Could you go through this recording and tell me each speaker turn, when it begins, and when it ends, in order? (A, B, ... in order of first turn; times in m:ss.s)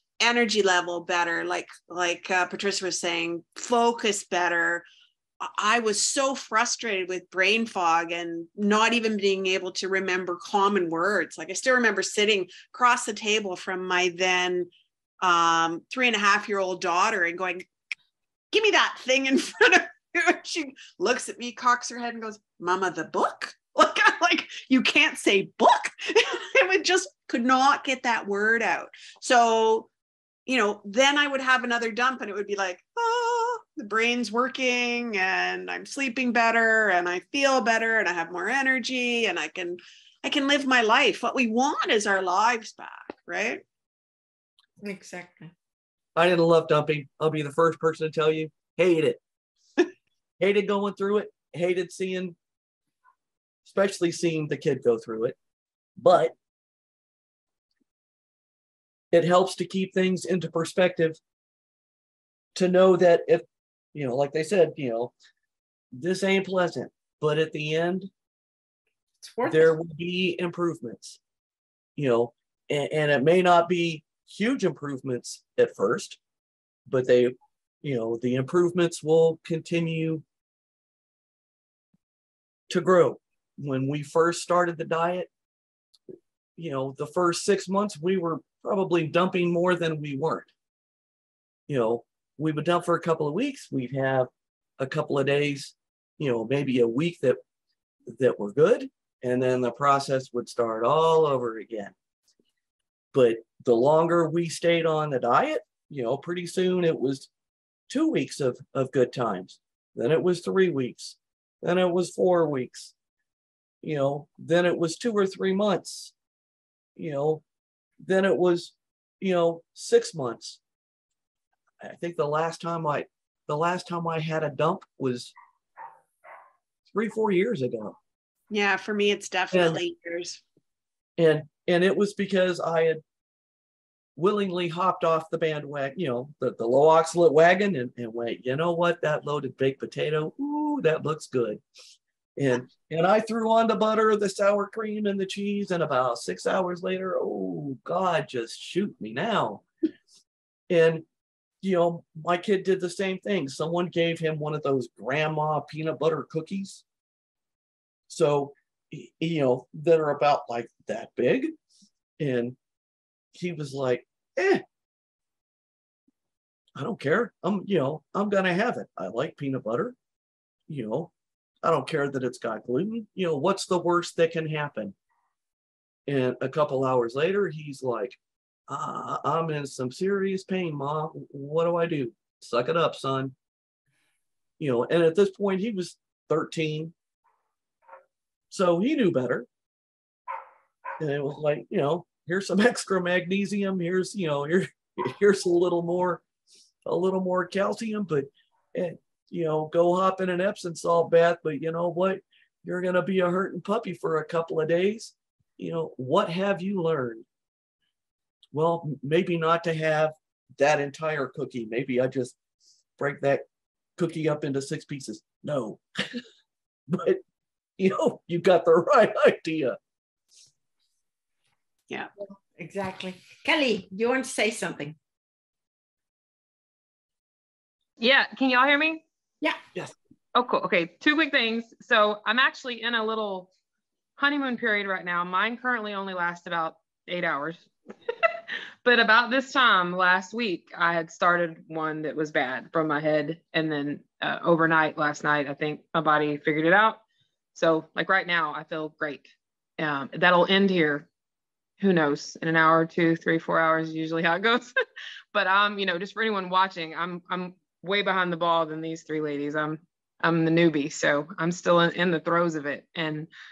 0:00.2-0:04.8 A
0:05.4-0:14.7 A
0:15.2-0:17.6 A
0:18.5-0:29.9 A
0:30.5-0:43.6 A
0:44.8-0:45.5 B
0:46.2-0:49.2 C
0:50.4-0:52.4 C
0:53.6-0:55.4 C
0:56.0-0:56.4 C
0:59.1-1:01.2 C
1:02.6-1:05.1 C
1:06.0-1:08.1 C
1:09.2-1:09.8 B
1:09.5-1:11.2 C
1:12.0-1:16.2 C
1:16.9-1:20.2 C
1:22.7-1:25.3 C
1:26.6-1:30.5 C
1:31.7-1:37.4 C
1:38.1-1:41.9 C
1:43.1-1:47.3 C
1:47.9-1:52.9 C
1:53.8-1:56.1 C
1:57.0-1:57.4 C
1:58.0-2:00.6 C
2:01.8-2:05.3 C
2:06.9-2:08.0 C
2:08.5-2:10.4 A
2:09.5-2:09.8 C
2:11.2-2:13.0 C
2:14.2-2:21.6 C
2:22.4-2:29.6 C
2:30.7-2:31.0 C
2:31.6-2:36.8 C
2:38.1-2:41.5 C
2:42.2-2:42.6 C
2:43.4-2:44.6 C
2:46.8-2:50.0 C
2:50.7-2:51.1 C
2:51.6-2:55.0 C
2:56.1-2:58.2 C
2:58.7-3:03.3 C
3:04.6-3:06.9 C
3:08.5-3:09.5 C
3:11.0-3:16.2 C
3:16.8-3:27.3 C
3:28.5-3:32.4 C
3:33.0-3:33.4 C
3:34.0-3:36.2 C
3:36.9-3:37.2 C
3:37.8-3:39.8 C
3:42.6-3:45.0 B
3:48.0-3:49.0 D
3:49.4-3:49.9 B
3:50.4-3:53.5 D
3:54.2-3:58.3 D
3:58.8-4:07.0 D
4:07.6-4:11.1 D
4:11.8-4:14.8 D
4:15.3-4:23.3 D